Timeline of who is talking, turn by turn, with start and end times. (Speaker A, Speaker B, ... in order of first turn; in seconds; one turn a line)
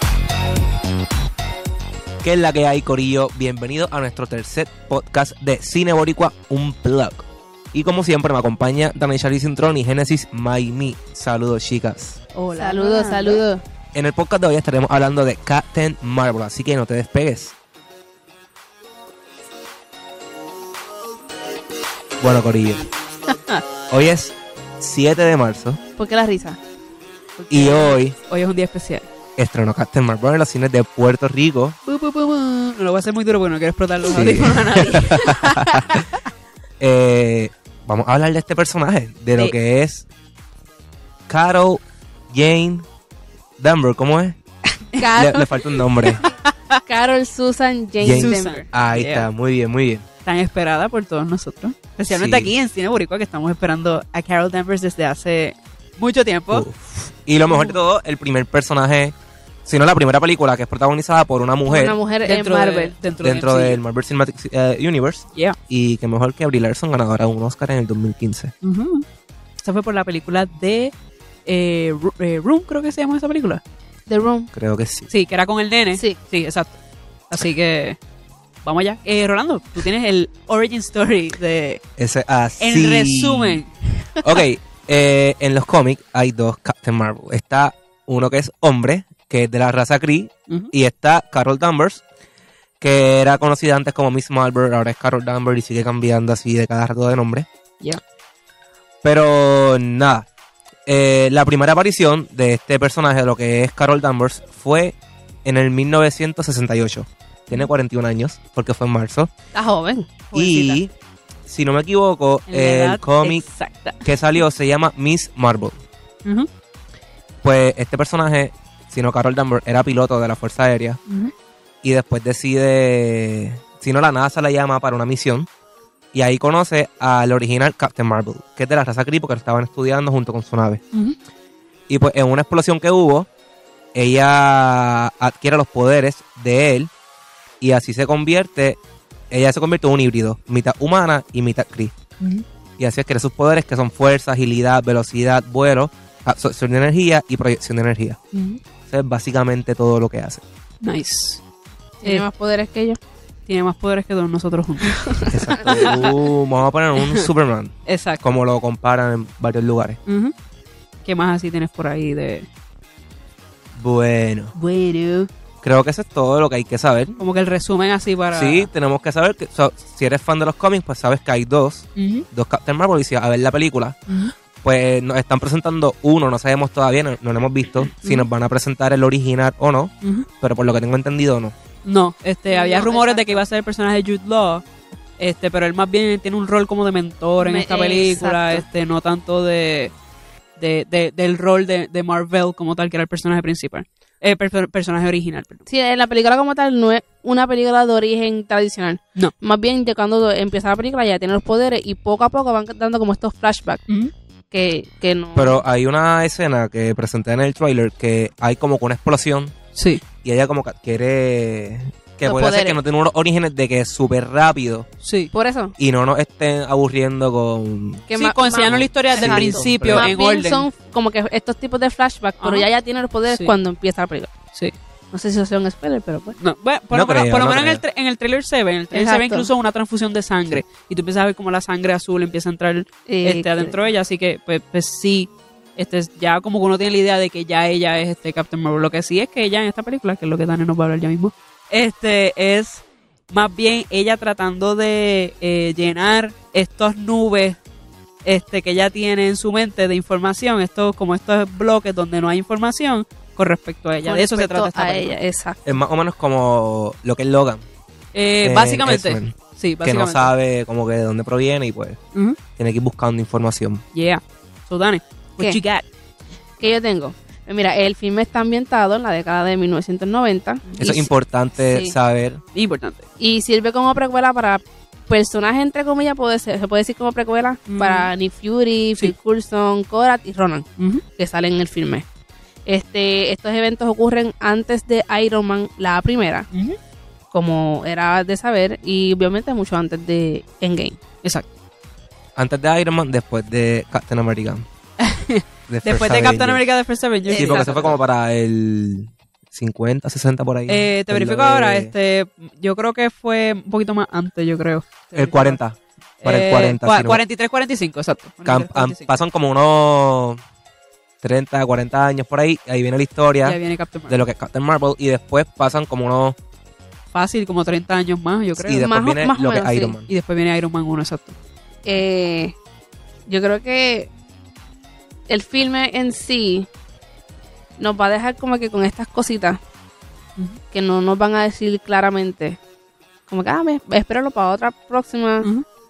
Speaker A: 2.2-12.2
Speaker B: 12.3-13.4
Speaker C: 12.6-13.6
Speaker A: 13.9-17.5
Speaker A: 22.2-22.9
Speaker A: 23.9-25.8
Speaker C: 26.0-26.6
Speaker B: 27.4-29.1
Speaker A: 27.5-28.2
Speaker A: 29.4-31.8
Speaker B: 31.9-35.4
Speaker A: 34.1-36.0
Speaker C: 34.9-35.6
Speaker A: 36.8-40.0
Speaker A: 41.3-42.9
Speaker A: 43.6-44.4
Speaker C: 44.8-45.8
Speaker A: 45.1-46.2
Speaker B: 46.2-46.8
Speaker C: 46.9-48.6
Speaker A: 48.0-50.0
Speaker B: 48.2-49.3
Speaker B: 50.2-56.7
Speaker A: 52.1-52.5
Speaker A: 56.5-59.1
Speaker B: 57.5-57.8
Speaker A: 59.7-62.0
Speaker C: 61.7-63.0
Speaker B: 62.2-63.8
Speaker A: 63.2-68.5
Speaker B: 68.6-69.1
Speaker B: 69.6-70.9
Speaker B: 71.5-73.6
Speaker C: 74.1-74.5
Speaker A: 74.5-75.1
Speaker B: 75.1-76.8
Speaker B: 77.3-78.0
Speaker B: 78.6-81.8
Speaker A: 82.0-83.6
Speaker B: 82.6-84.0
Speaker A: 84.2-92.0
Speaker A: 92.8-97.5
Speaker A: 99.0-100.3
Speaker A: 100.9-109.3
Speaker C: 109.5-110.8
Speaker A: 110.3-110.9
Speaker A: 111.5-113.4
Speaker B: 112.5-114.1
Speaker A: 114.0-115.8
Speaker A: 117.4-121.0
Speaker A: 121.8-125.5
Speaker A: 126.1-130.8
Speaker A: 131.9-133.3
Speaker A: 133.9-136.9
Speaker A: 137.6-138.8
Speaker A: 139.3-142.0
Speaker A: 142.8-148.2
Speaker B: 148.3-148.6
Speaker A: 148.9-150.4
Speaker B: 150.8-151.4
Speaker C: 152.0-153.0
Speaker B: 153.5-156.1
Speaker C: 155.1-155.8
Speaker A: 155.3-160.0
Speaker B: 157.0-157.3
Speaker B: 157.9-158.2
Speaker B: 160.1-160.3
Speaker B: 161.1-162.5
Speaker A: 163.7-164.5
Speaker B: 164.6-165.3
Speaker A: 165.6-167.2
Speaker B: 167.2-168.7
Speaker A: 168.3-174.0
Speaker B: 172.0-172.3
Speaker B: 174.1-174.3
Speaker A: 174.6-181.6
Speaker B: 181.8-184.6
Speaker C: 182.5-183.4
Speaker B: 185.2-189.9
Speaker C: 187.4-188.7
Speaker B: 190.6-195.7
Speaker C: 195.7-203.8
Speaker C: 204.5-205.6
Speaker A: 205.4-209.5
Speaker B: 209.8-210.0
Speaker A: 210.2-214.9
Speaker C: 212.2-212.8
Speaker B: 215.0-215.3
Speaker C: 215.3-215.7
Speaker A: 215.8-218.1
Speaker C: 218.1-224.3
Speaker B: 218.2-220.7
Speaker A: 218.6-220.1
Speaker B: 222.4-222.7
Speaker B: 223.3-223.5
Speaker C: 225.1-226.4
Speaker B: 226.4-247.6
Speaker A: 226.9-227.8
Speaker C: 228.9-229.5
Speaker C: 233.1-233.8
Speaker B: 248.2-255.2
Speaker C: 254.1-255.6
Speaker A: 255.7-257.6
Speaker B: 258.1-260.3
Speaker A: 258.4-262.0
Speaker A: 262.6-263.8
Speaker B: 263.9-265.9
Speaker C: 266.6-271.9
Speaker A: 270.8-272.4
Speaker B: 272.5-273.1
Speaker C: 273.2-280.7
Speaker B: 277.7-278.1
Speaker B: 280.8-281.0
Speaker C: 281.2-282.1
Speaker C: 282.7-286.5
Speaker B: 286.5-286.8
Speaker C: 287.3-291.0
Speaker A: 292.4-294.7
Speaker B: 295.0-298.0
Speaker A: 295.7-296.6
Speaker C: 297.3-297.7
Speaker A: 297.3-301.9
Speaker B: 300.7-305.6
Speaker A: 305.1-307.2
Speaker B: 306.2-309.1
Speaker A: 308.4-310.4
Speaker A: 311.2-313.6
Speaker B: 313.4-314.2
Speaker A: 314.1-316.4
Speaker B: 317.1-318.9
Speaker A: 318.6-320.1
Speaker C: 318.8-319.9
Speaker B: 320.1-321.4
Speaker C: 321.9-322.6
Speaker C: 323.3-324.1
Speaker C: 325.3-326.7
Speaker C: 327.8-329.6
Speaker C: 330.7-332.6
Speaker C: 333.3-335.5